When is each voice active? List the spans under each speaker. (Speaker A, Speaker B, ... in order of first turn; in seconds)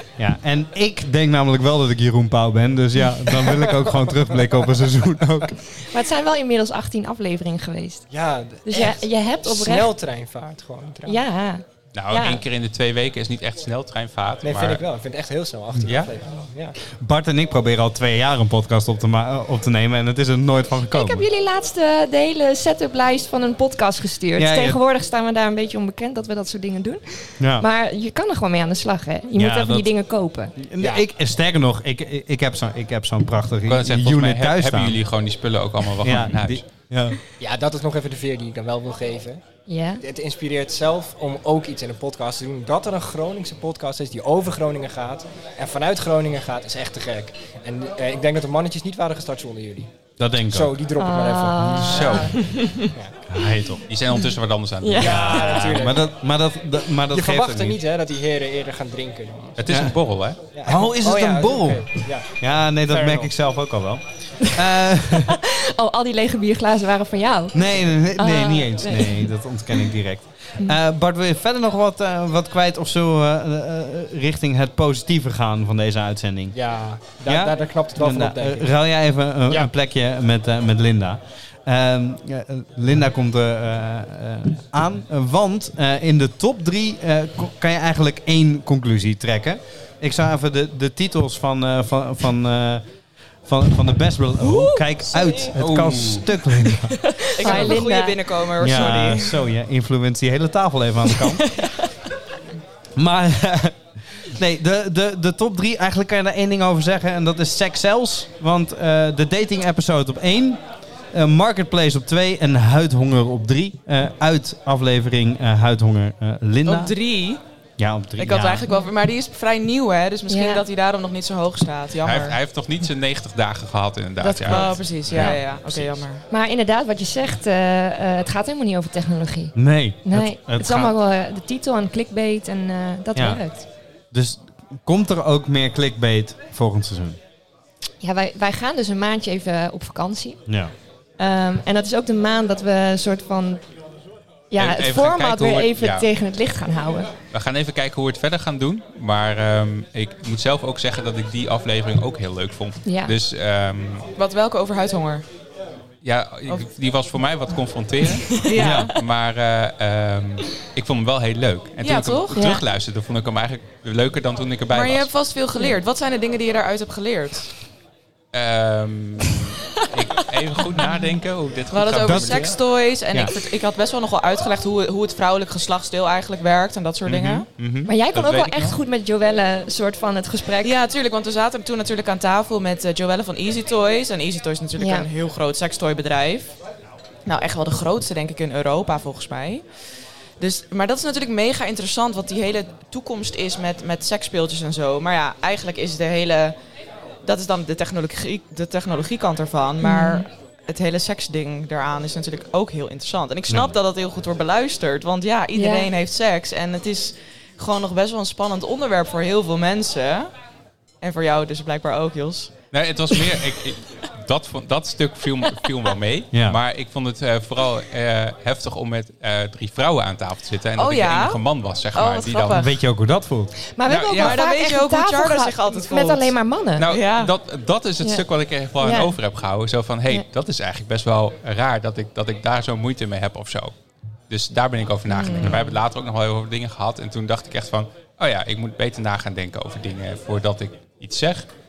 Speaker A: 0.2-5.5, 16.9-21.3, 24.4-24.8, 27.4-27.6, 29.4-29.9, 30.6-35.0, 36.0-37.2, 50.2-50.8, 53.3-53.8, 55.0-57.8, 59.7-59.9, 60.6-65.4, 67.5-76.6, 77.3-92.8, 93.5-97.8, 98.6-101.5, 103.0-117.0, 117.8-118.7, 129.6-130.9, 133.1-133.4, 134.1-137.2, 140.5-140.7, 158.6-158.9, 172.0-172.5, 203.5-203.7, 216.3-216.6, 222.5-223.5
Speaker B: 5.8-8.1, 8.6-9.9, 11.1-12.4, 20.9-30.5, 39.7-40.0, 51.0-52.9, 54.8-55.3, 65.2-69.3, 97.1-99.0, 120.3-120.6, 124.2-125.4, 126.3-133.7, 138.0-140.4, 141.2-143.6, 144.5-147.1, 152.8-153.1, 162.4-162.6, 177.9-180.8, 184.8-185.1, 199.8-200.3, 205.6-205.9, 223.8-226.9, 228.8-229.2
Speaker C: 8.1-11.2, 14.4-16.8, 37.4-39.4, 40.0-49.9, 50.5-52.3, 52.8-53.2, 55.0-56.1, 57.1-59.6, 60.5-63.3, 76.5-78.7
Speaker D: 11.9-14.8, 15.9-16.1, 33.7-36.6, 51.6-52.5, 53.9-55.7, 59.6-60.4, 95.6-96.4, 122.0-126.0, 144.6-146.1, 147.3-154.1, 156.0-165.1, 168.3-172.6, 177.1-178.8, 212.7-222.6, 223.9-224.4, 226.8-233.7, 234.3-241.5
Speaker E: 94.4-95.5, 96.7-99.4, 101.2-101.7, 116.7-117.4, 118.2-122.4, 124.5-126.2, 154.2-155.2, 158.3-159.0, 161.8-162.5, 164.7-167.5, 169.8-170.9, 171.7-177.5, 180.6-186.6, 187.2-189.6, 190.4-196.6, 197.2-210.3, 211.0-212.6, 220.8-221.4, 221.9-222.8, 224.1-226.3, 226.9-227.3, 235.1-235.8